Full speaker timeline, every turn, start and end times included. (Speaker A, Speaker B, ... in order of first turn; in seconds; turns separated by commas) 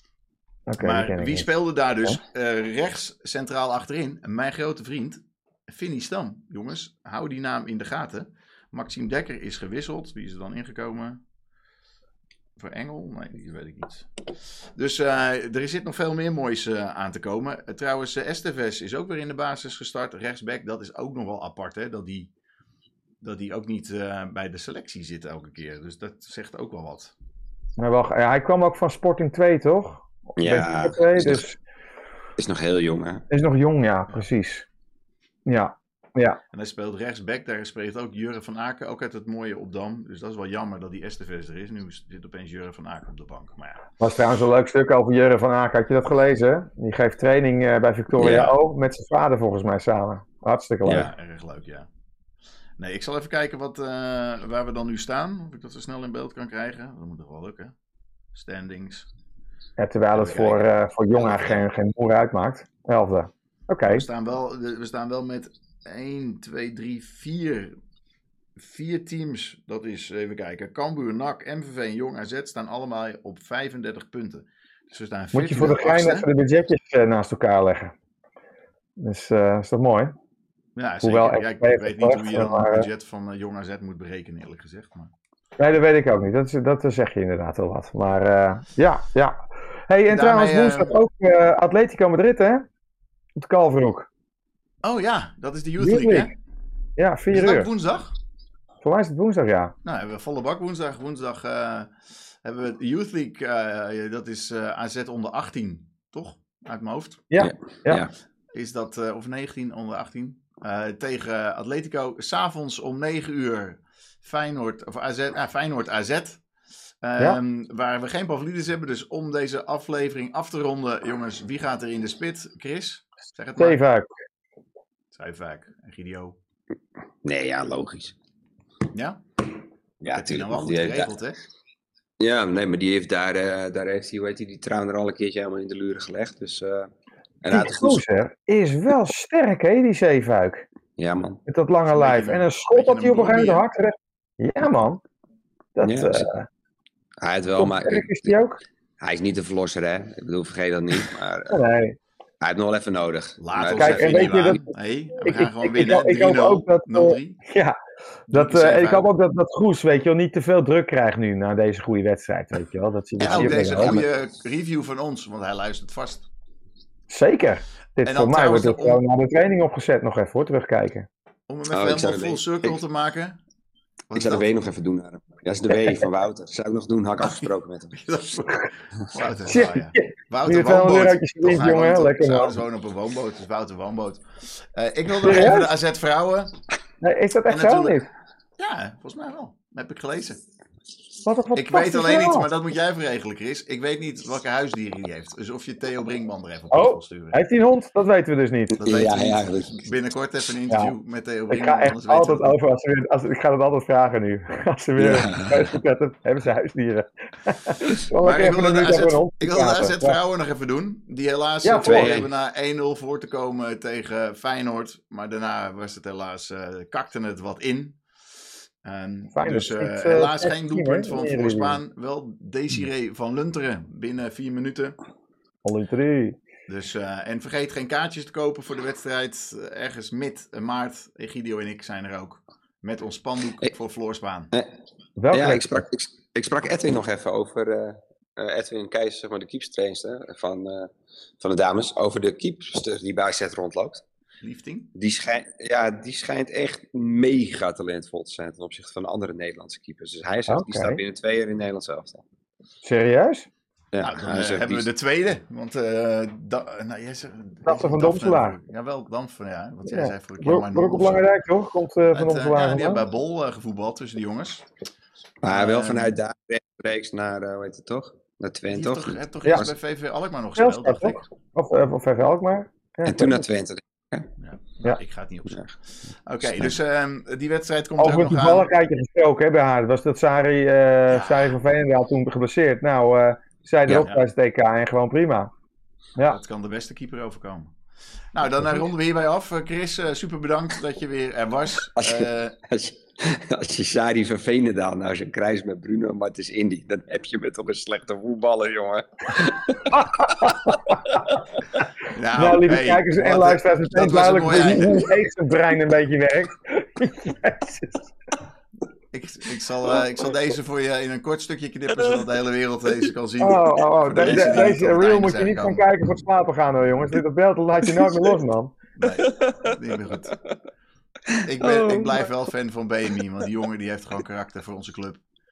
Speaker A: 0.7-1.5, Speaker B: 0.8-11.2, Speaker B: 12.6-14.1, Speaker B: 14.8-22.3, Speaker B: 23.2-27.1, Speaker A: 27.8-31.6, Speaker C: 30.4-31.4, Speaker C: 32.4-33.3, Speaker A: 33.3-34.6, Speaker A: 35.5-36.4, Speaker B: 36.5-43.9, Speaker A: 44.0-51.1, Speaker C: 48.2-48.6, Speaker C: 50.9-51.1, Speaker B: 50.9-51.9, Speaker B: 52.8-57.7, Speaker B: 58.3-59.1, Speaker A: 59.8-64.0, Speaker B: 60.1-61.6, Speaker B: 63.9-67.7, Speaker B: 68.6-76.3, Speaker A: 75.3-77.9, Speaker A: 79.0-80.2, Speaker B: 80.8-85.1, Speaker A: 81.0-82.9, Speaker A: 85.6-92.7, Speaker B: 90.1-90.9, Speaker A: 93.4-94.1, Speaker B: 94.8-96.3, Speaker A: 95.8-96.3, Speaker A: 97.0-97.7, Speaker B: 97.3-98.1, Speaker A: 98.8-99.7, Speaker B: 99.8-101.9, Speaker B: 102.4-107.2, Speaker A: 107.3-108.0, Speaker C: 107.4-108.1, Speaker B: 108.5-116.4, Speaker B: 117.0-123.8, Speaker A: 123.6-124.1, Speaker B: 125.1-126.4, Speaker C: 127.2-128.2, Speaker B: 128.9-129.2, Speaker C: 130.0-131.1, Speaker B: 130.1-131.4, Speaker C: 132.2-138.0, Speaker A: 137.5-140.7, Speaker C: 141.0-141.4, Speaker A: 141.5-145.0, Speaker B: 141.9-143.7, Speaker A: 145.8-146.5, Speaker C: 145.8-146.3, Speaker C: 147.2-148.4, Speaker A: 147.6-148.6, Speaker C: 149.0-151.6, Speaker A: 151.5-152.0, Speaker C: 152.4-154.6, Speaker B: 153.4-157.4, Speaker A: 153.8-157.8, Speaker B: 158.3-159.1, Speaker A: 158.3-164.0, Speaker B: 163.2-166.3, Speaker C: 163.3-164.1, Speaker A: 167.1-171.1, Speaker B: 168.0-169.0, Speaker B: 171.5-173.4, Speaker C: 171.7-172.8, Speaker B: 174.1-174.5, Speaker C: 174.2-177.9, Speaker B: 177.2-186.6, Speaker A: 179.5-182.6, Speaker A: 185.2-185.7, Speaker A: 187.0-188.1, Speaker B: 187.5-188.0, Speaker B: 188.6-190.4, Speaker A: 191.2-192.5, Speaker B: 191.5-197.4, Speaker A: 196.7-198.8, Speaker C: 198.8-199.8, Speaker B: 198.8-202.6, Speaker A: 201.5-210.2, Speaker C: 205.0-205.7, Speaker B: 208.2-218.0, Speaker A: 211.6-212.2, Speaker C: 211.8-212.3, Speaker B: 218.8-224.9, Speaker A: 219.4-221.8, Speaker A: 225.6-226.4, Speaker B: 226.7-234.5, Speaker A: 235.2-235.8, Speaker C: 235.3-244.1, Speaker B: 244.4-244.9, Speaker C: 244.9-252.2, Speaker A: 250.5-251.0, Speaker A: 252.8-253.5, Speaker C: 253.9-254.9, Speaker B: 254.0-261.3, Speaker A: 257.7-258.6, Speaker A: 259.9-263.0, Speaker B: 262.1-264.7, Speaker C: 265.4-269.7, Speaker B: 265.5-266.2, Speaker B: 268.7-271.2, Speaker A: 270.6-273.5, Speaker C: 273.1-274.3, Speaker B: 274.4-275.7, Speaker B: 276.2-278.7, Speaker C: 276.4-276.7, Speaker A: 278.0-285.5, Speaker B: 281.1-281.6, Speaker B: 283.9-284.2, Speaker B: 286.3-287.8, Speaker B: 288.3-292.6, Speaker C: 292.0-301.3, Speaker A: 300.0-300.8, Speaker B: 302.1-305.1, Speaker A: 302.4-308.1, Speaker B: 309.1-315.8, Speaker A: 313.4-318.7, Speaker C: 314.2-314.8, Speaker C: 317.8-318.4, Speaker B: 319.0-320.3, Speaker C: 319.2-319.8, Speaker C: 321.3-322.3, Speaker B: 321.4-325.2